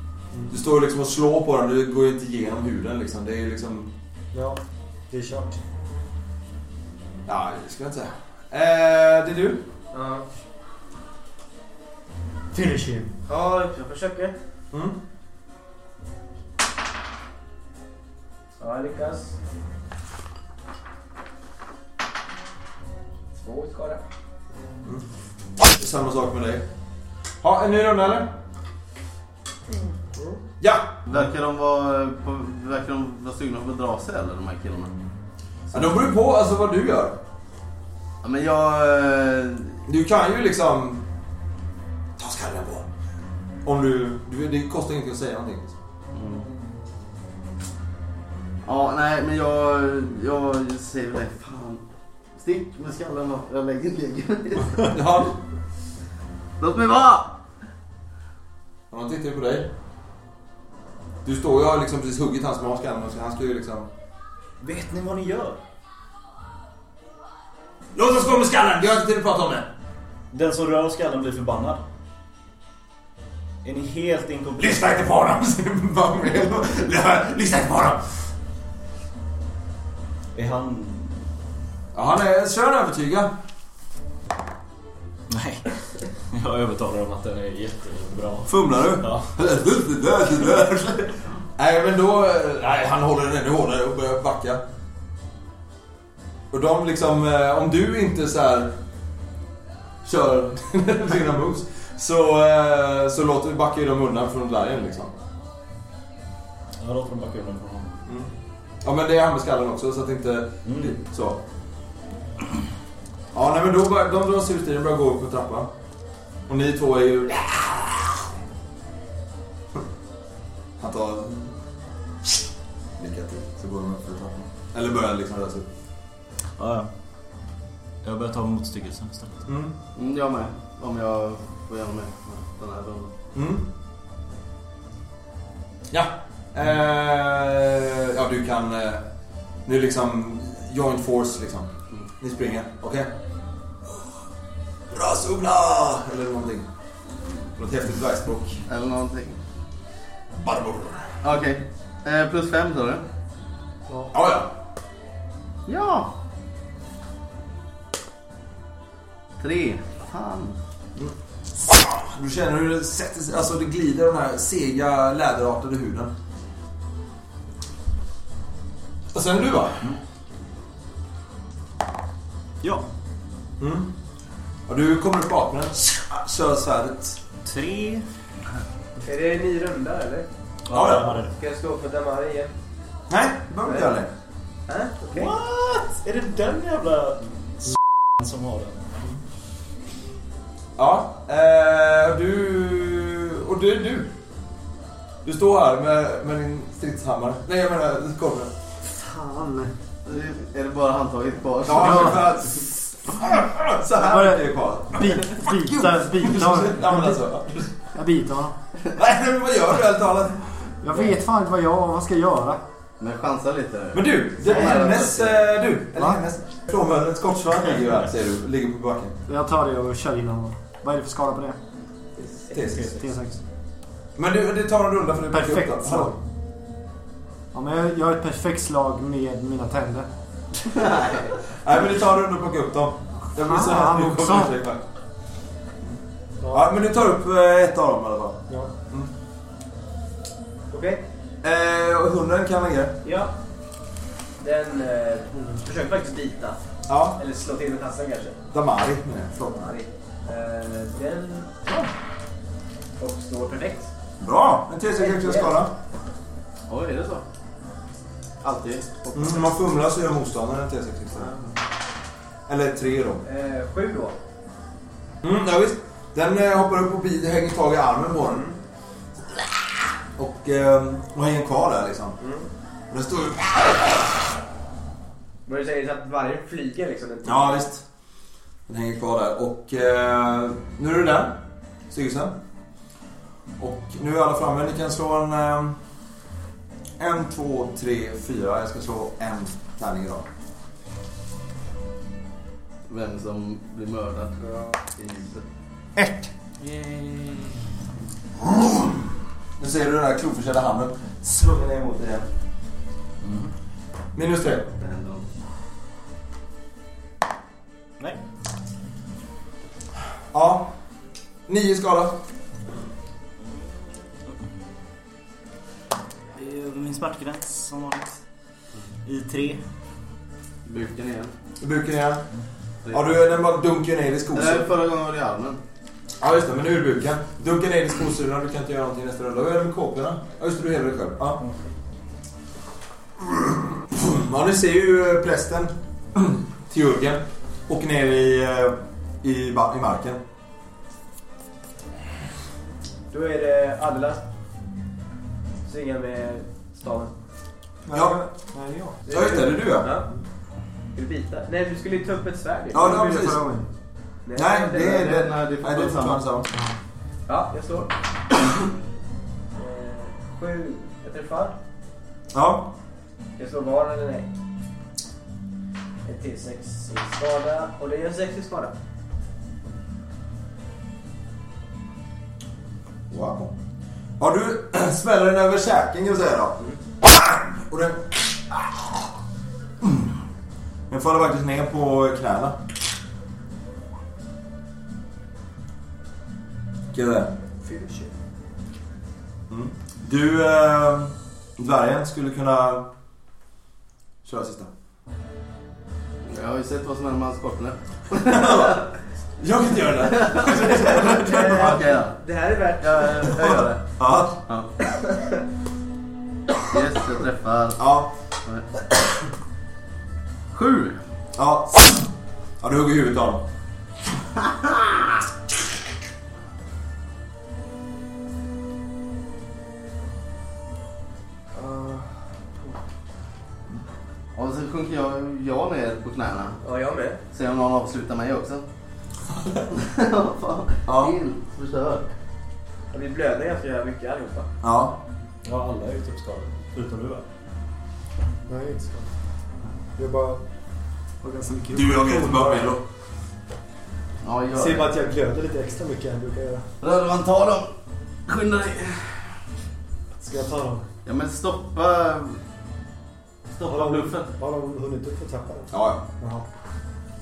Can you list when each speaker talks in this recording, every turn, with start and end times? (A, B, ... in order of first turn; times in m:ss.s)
0:00.5-0:03.9 A
0:04.3-0:05.6 B
0:07.2-0:09.6 A
0:09.9-0:10.2 C
0:12.5-0:13.1 B
0:13.2-0:14.3 C
0:14.7-0:15.0 A
0:18.6-0:19.4 C
0:23.4-0:24.0 C
0:25.6-0:26.6 A
0:27.4-0:28.3 A
0:30.1-0:30.4 B
0:30.6-0:31.0 A
0:31.0-0:34.9 D
0:35.7-0:37.2 A
0:38.2-0:39.8 D
0:39.9-0:41.0 A
0:42.2-0:42.9 A
0:43.6-0:45.8 A
0:46.1-0:46.4 D
0:48.6-0:51.8 D
0:52.4-0:55.0 D
0:54.8-0:55.3 A
0:56.6-0:57.4 D
0:58.9-0:59.7 A
1:01.2-1:03.9 A
1:04.6-1:05.6 E
1:07.9-1:09.7 A
1:10.3-1:11.8 E
1:13.6-1:15.0 E
1:14.6-1:18.0 A
1:20.3-1:21.3 E
1:21.9-1:23.3 A
1:25.3-1:29.3 E
1:28.5-1:34.6 A
1:36.5-1:38.7 A
1:40.0-1:45.1 A
1:46.8-1:48.0 E
1:48.8-1:51.4 A
1:50.6-1:51.0 E
1:53.3-1:55.7 A
1:56.5-1:58.2 A
2:00.8-2:01.6 A
2:03.0-2:05.7 A
2:06.6-2:06.9 E
2:08.0-2:09.4 E
2:09.5-2:09.7 A
2:10.0-2:13.1 D
2:13.3-2:13.7 A
2:15.9-2:19.0 A
2:19.6-2:21.7 A
2:22.2-2:23.1 A
2:24.9-2:26.7 A
2:27.4-2:28.6 A
2:28.7-2:29.4 D
2:30.4-2:31.1 A
2:31.2-2:33.0 D
2:33.9-2:34.1 B
2:34.1-2:34.5 A
2:35.7-2:36.1 D
2:39.4-2:40.6 D
2:40.9-2:46.1 A
2:49.1-2:49.9 A
2:53.6-2:53.9 A
2:54.7-2:57.2 A
2:57.4-2:58.1 E
2:59.0-3:00.3 C
3:00.7-3:01.3 E
3:00.7-3:01.2 A
3:01.2-3:02.5 C
3:03.1-3:04.1 A
3:03.6-3:03.9 C
3:04.7-3:05.4 C
3:05.1-3:08.9 E
3:10.8-3:14.1 A
3:15.2-3:18.5 A
3:18.8-3:19.7 B
3:20.0-3:22.3 D
3:21.6-3:27.7 A
3:23.9-3:27.2 B
3:27.9-3:28.6 B
3:28.9-3:30.7 A
3:30.8-3:32.6 B
3:33.0-3:35.4 D
3:33.9-3:39.2 A
3:36.0-3:36.2 B
3:39.3-3:41.6 B
3:42.2-3:42.7 C
3:42.5-3:43.1 A
3:42.7-3:43.4 B
3:44.2-3:46.1 A
3:45.3-3:46.2 B
3:47.5-3:50.1 B
3:50.7-3:51.3 D
3:51.5-3:54.8 A
3:53.4-3:54.5 B
3:56.4-3:56.7 B
3:56.5-3:59.1 A
4:00.7-4:01.0 C
4:01.4-4:03.0 A
4:03.0-4:03.3 C
4:04.4-4:08.4 C
4:06.9-4:07.2 A
4:08.5-4:09.7 A
4:09.4-4:11.6 C
4:13.0-4:13.9 C
4:14.2-4:15.7 A
4:15.0-4:15.6 C
4:16.7-4:17.2 D
4:18.4-4:19.1 D
4:19.1-4:21.3 A
4:21.2-4:21.5 D
4:22.5-4:23.2 A
4:23.2-4:24.2 C
4:25.2-4:28.5 A
4:28.3-4:28.6 C
4:30.2-4:32.2 A
4:32.2-4:32.5 C
4:32.9-4:34.2 A
4:35.4-4:37.6 C
4:37.2-4:37.8 A
4:38.7-4:41.4 A
4:41.9-4:42.3 A
4:43.6-4:45.8 A
4:47.0-4:50.3 A
4:52.9-4:55.4 D
4:56.6-4:57.6 E
4:58.4-5:02.3 A
5:03.2-5:03.5 E
5:04.1-5:04.7 A
5:04.8-5:05.2 D
5:10.3-5:10.7 A
5:11.5-5:12.2 A
5:14.2-5:14.6 E
5:16.3-5:18.1 E
5:19.0-5:19.6 E
5:20.6-5:21.3 D
5:21.6-5:22.3 A
5:22.8-5:23.1 D
5:22.9-5:24.7 A
5:24.3-5:25.6 D
5:26.2-5:31.4 A
5:33.2-5:40.2 A
5:43.1-5:44.2 C
5:45.6-5:47.1 C
5:47.8-5:49.0 B
5:47.9-5:48.3 A
5:49.0-5:50.1 C
5:49.1-5:49.9 A
5:50.9-5:53.0 C
5:52.7-5:53.4 A
5:52.8-5:53.7 B
5:54.2-5:55.0 C
5:54.3-5:56.5 A
5:54.7-5:56.2 D
5:57.3-5:57.9 C
5:59.5-6:01.6 C
6:02.3-6:02.7 A
6:03.4-6:04.3 C
6:06.0-6:08.7 C
6:13.1-6:13.5 A
6:14.2-6:19.1 A
6:19.8-6:20.1 A
6:20.9-6:22.6 A
6:26.9-6:27.3 A
6:27.6-6:28.1 B
6:29.5-6:32.9 A
6:34.2-6:34.7 A
6:36.2-6:38.9 D
6:38.2-6:38.8 A
6:39.4-6:41.8 A
6:40.0-6:42.2 D
6:40.6-6:43.5 C
6:42.8-6:44.7 D
6:43.4-6:44.4 A
6:44.9-6:45.4 C
6:46.7-6:47.8 D
6:47.8-6:48.1 A
6:48.4-6:49.0 D
6:50.5-6:51.0 D
6:51.4-6:53.4 A
7:01.5-7:02.7 C
7:04.3-7:06.6 D
7:06.6-7:07.2 C
7:07.3-7:08.6 D
7:09.6-7:12.1 D
7:10.9-7:11.2 A
7:12.9-7:14.5 C
7:14.6-7:15.0 A
7:15.4-7:17.2 E
7:18.5-7:19.1 B
7:20.0-7:20.4 B
7:21.2-7:22.7 B
7:21.7-7:22.8 A
7:24.2-7:24.9 D
7:24.5-7:26.7 B
7:26.8-7:27.7 D
7:28.2-7:29.4 D
7:30.2-7:30.9 B
7:31.0-7:32.4 D
7:33.6-7:34.3 D
7:33.7-7:36.4 B
7:35.7-7:36.0 A